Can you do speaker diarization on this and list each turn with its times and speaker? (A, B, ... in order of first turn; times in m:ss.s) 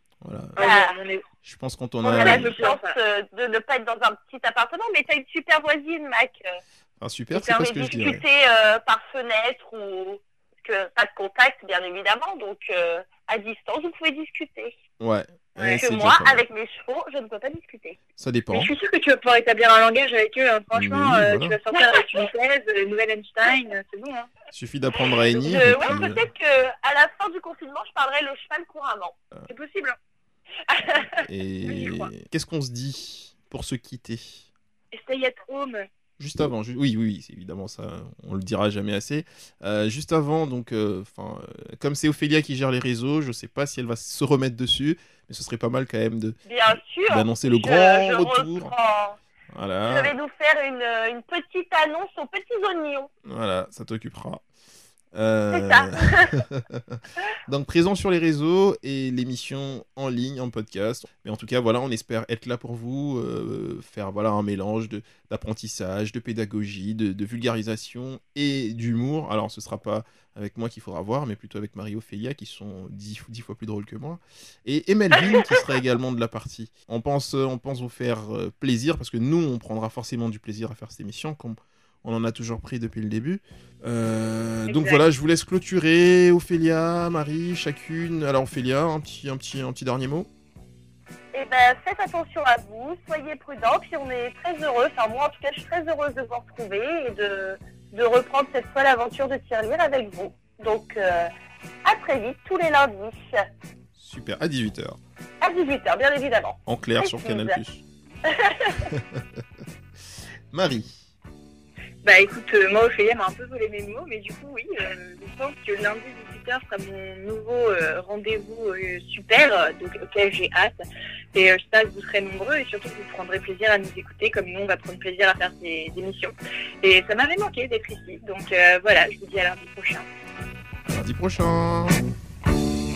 0:00.2-0:00.6 A
0:00.6-0:01.2 B
0:00.6-0:01.0 C
0:01.4-0:02.6 A
0:02.0-0:06.6 C
0:02.0-0:03.0 B
0:07.0-0:08.2 A
0:07.3-0:14.7 C
0:15.0-0:16.4 A
0:15.8-0:18.0 C
0:18.2-0:18.7 A
0:18.5-0:24.3 B
0:20.7-0:21.6 A
0:21.7-0:22.0 C
0:24.5-0:26.2 A
0:25.4-0:29.1 C
0:29.5-0:30.0 B
0:30.7-0:31.1 C
0:31.2-0:34.4 A
0:31.6-0:32.1 B
0:34.9-0:35.9 B
0:36.2-0:46.4 A
0:46.4-0:49.2 C
0:47.0-0:48.7 A
0:49.5-0:50.1 A
0:49.8-0:53.1 C
0:53.3-0:54.4 A
0:55.1-1:30.3 A
0:55.5-0:56.3 C
1:24.7-1:25.0 B
1:31.3-1:41.3 C
1:41.8-1:43.2 C
1:44.0-1:45.0 A
1:45.4-1:47.6 C
1:46.7-1:47.8 A
1:48.3-1:48.9 C
1:48.9-1:49.2 A
1:50.5-1:51.0 A
1:52.0-2:00.8 B
2:01.3-2:10.0 B
2:10.8-2:12.0 A